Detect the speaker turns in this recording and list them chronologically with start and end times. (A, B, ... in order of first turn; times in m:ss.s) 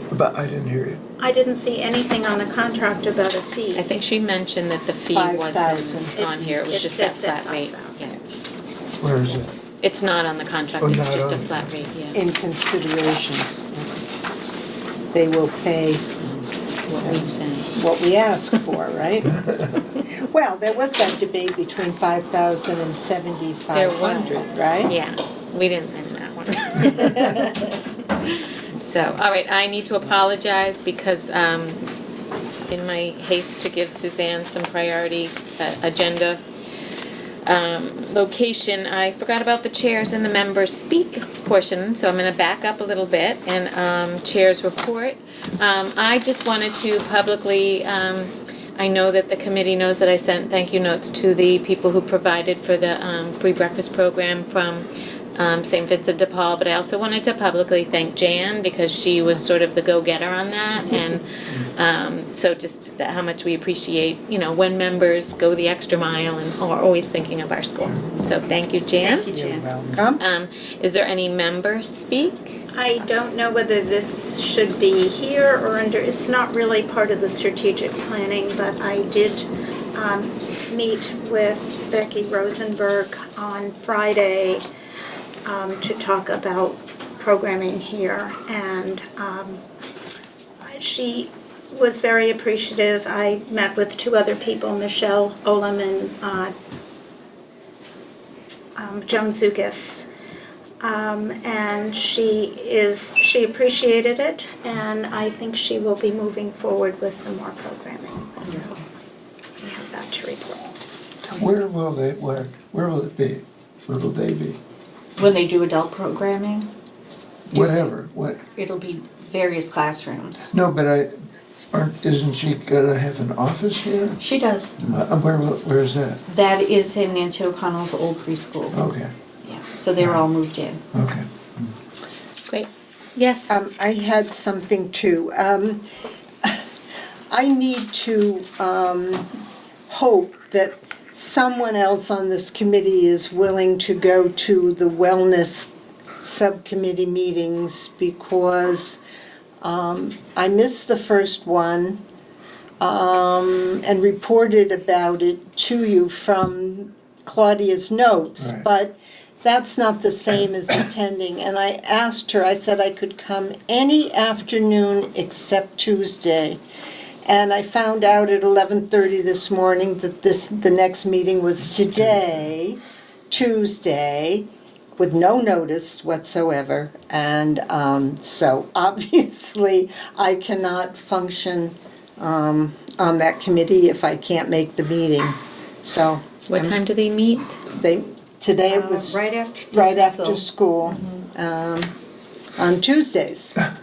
0:00.1-0:01.0 A
0:01.2-0:03.9 B
0:03.7-0:08.2 C
0:05.1-0:06.2 D
0:06.2-0:08.2 B
0:09.0-0:09.5 A
0:09.8-0:12.2 C
0:10.8-0:11.7 A
0:12.1-0:14.0 D
0:15.1-0:16.1 D
0:16.8-0:17.7 C
0:16.9-0:19.4 D
0:20.0-0:24.9 D
0:23.7-0:31.9 C
0:32.7-0:36.4 C
0:37.4-1:09.3 C
1:00.8-1:01.2 E
1:08.0-1:08.5 E
1:09.0-1:09.7 E
1:09.0-1:10.2 D
1:10.2-1:12.6 C
1:12.7-1:24.6 B
1:25.4-1:29.6 B
1:30.6-1:36.5 B
1:38.8-1:40.1 B
1:40.8-1:48.8 B
1:48.4-1:48.8 E
1:49.6-1:50.8 B
1:51.4-1:54.6 A
1:55.2-1:56.7 E
1:57.5-1:58.4 A
1:57.5-1:57.8 E
1:58.6-2:00.5 E
2:00.5-2:01.2 A
2:01.7-2:04.2 A
2:04.2-2:04.8 E
2:04.8-2:06.2 A
2:06.2-2:08.8 E
2:08.7-2:09.1 A
2:09.4-2:10.8 E
2:10.0-2:10.2 A
2:10.9-2:11.7 A
2:12.5-2:13.5 C
2:13.5-2:15.8 D
2:17.3-2:19.3 D
2:19.9-2:25.7 D
2:26.2-2:29.0 D
2:29.6-2:32.0 D
2:32.8-2:46.6 D
2:47.2-3:06.8 D
3:06.5-3:07.6 C
3:07.7-3:11.9 D
3:08.6-3:10.4 E
3:12.6-3:13.6 D